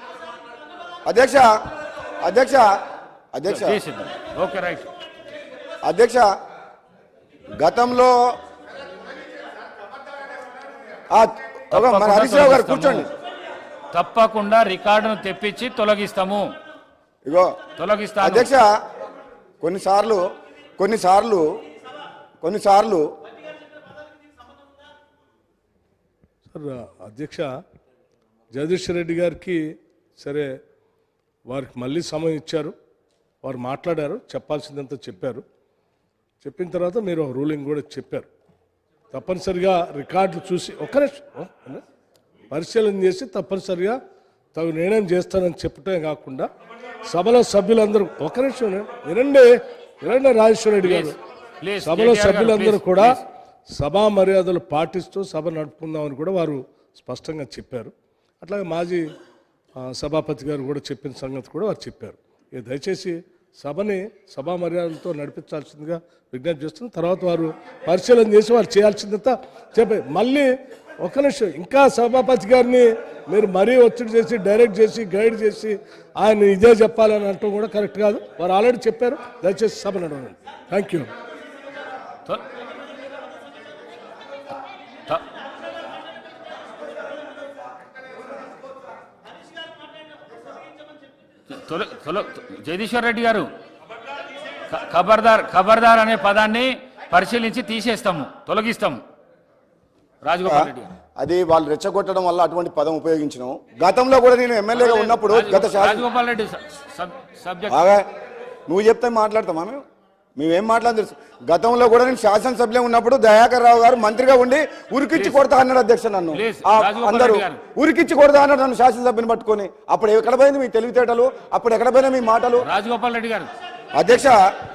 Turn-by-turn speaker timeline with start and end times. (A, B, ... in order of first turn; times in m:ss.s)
0:01.1-0:01.5 A
0:02.2-0:02.7 A
0:03.3-0:03.8 A
0:03.5-0:04.9 B
0:05.8-0:06.2 A
0:07.6-0:08.1 A
0:11.1-0:13.1 A
0:11.7-0:13.1 B
0:13.9-0:16.5 B
0:17.2-0:17.5 A
0:17.8-0:18.5 B
0:18.2-0:18.7 A
0:19.6-0:20.2 A
0:20.8-0:21.5 A
0:22.4-0:23.1 A
0:26.5-0:27.5 C
0:28.5-0:30.6 C
0:31.5-0:32.7 C
0:33.4-0:35.4 C
0:36.4-0:38.3 C
0:39.1-0:41.8 C
0:42.5-0:44.0 C
0:44.5-0:46.5 C
0:47.0-0:51.2 C
0:50.8-0:53.2 B
0:51.8-0:59.1 C
0:59.8-1:21.1 C
1:31.5-1:33.5 B
1:34.7-1:39.0 B
1:40.2-1:40.9 B
1:40.4-1:46.0 A
1:44.7-1:47.7 B
1:47.7-1:48.0 A
1:48.7-1:49.8 A
1:50.4-2:02.6 A
1:55.1-1:55.4 B
1:56.3-1:57.6 B
2:02.6-2:03.5 B
2:04.0-2:04.4 A